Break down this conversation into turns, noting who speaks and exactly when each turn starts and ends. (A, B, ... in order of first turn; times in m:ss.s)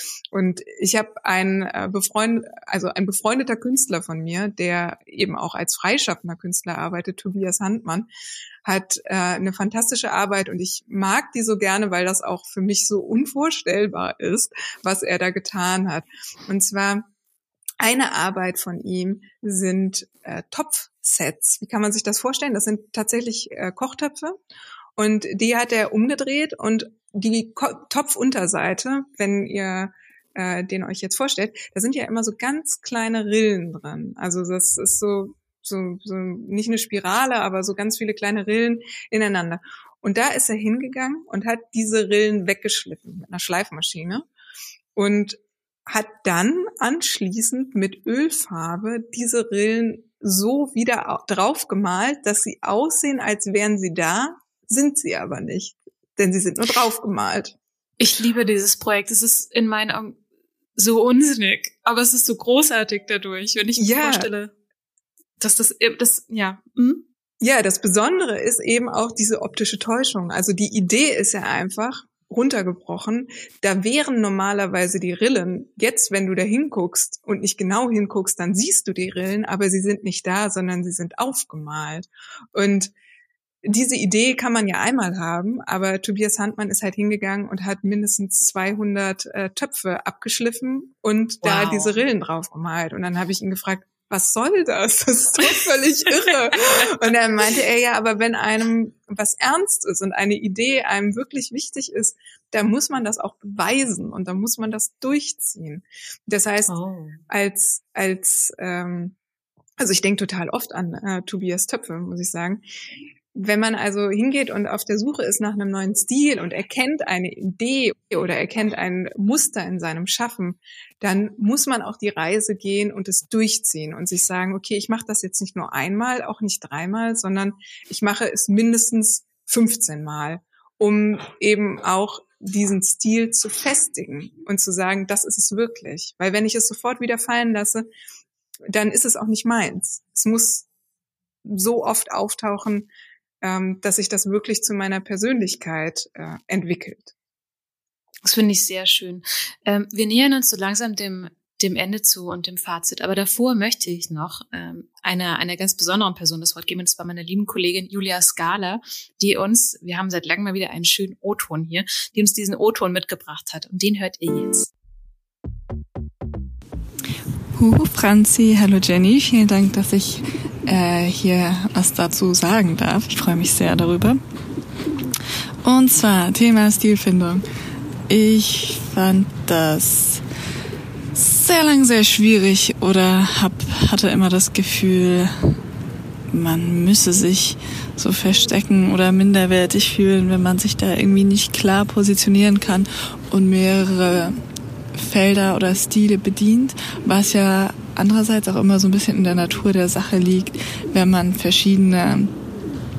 0:00.3-0:08.1 A
0:08.6-0:17.1 A
0:17.8-0:24.4 A
0:25.0-0:44.3 A
0:45.0-0:57.6 A
0:58.0-1:00.2 B
1:00.8-1:04.5 B
1:03.8-1:04.3 A
1:05.4-1:07.1 B
1:07.4-1:22.9 A
1:23.6-1:46.7 A
1:31.4-1:32.0 B
1:46.7-1:47.2 B
1:47.3-1:49.2 A
1:49.8-1:52.6 A
1:53.3-2:17.9 A
2:18.7-2:20.7 A
2:21.4-2:22.9 A
2:23.4-2:27.1 A
2:28.2-2:44.7 B
2:47.6-2:54.2 C
2:55.6-2:57.4 C
2:58.1-3:00.2 C
3:01.1-3:05.6 C
3:06.3-3:14.4 C
3:14.9-3:22.4 C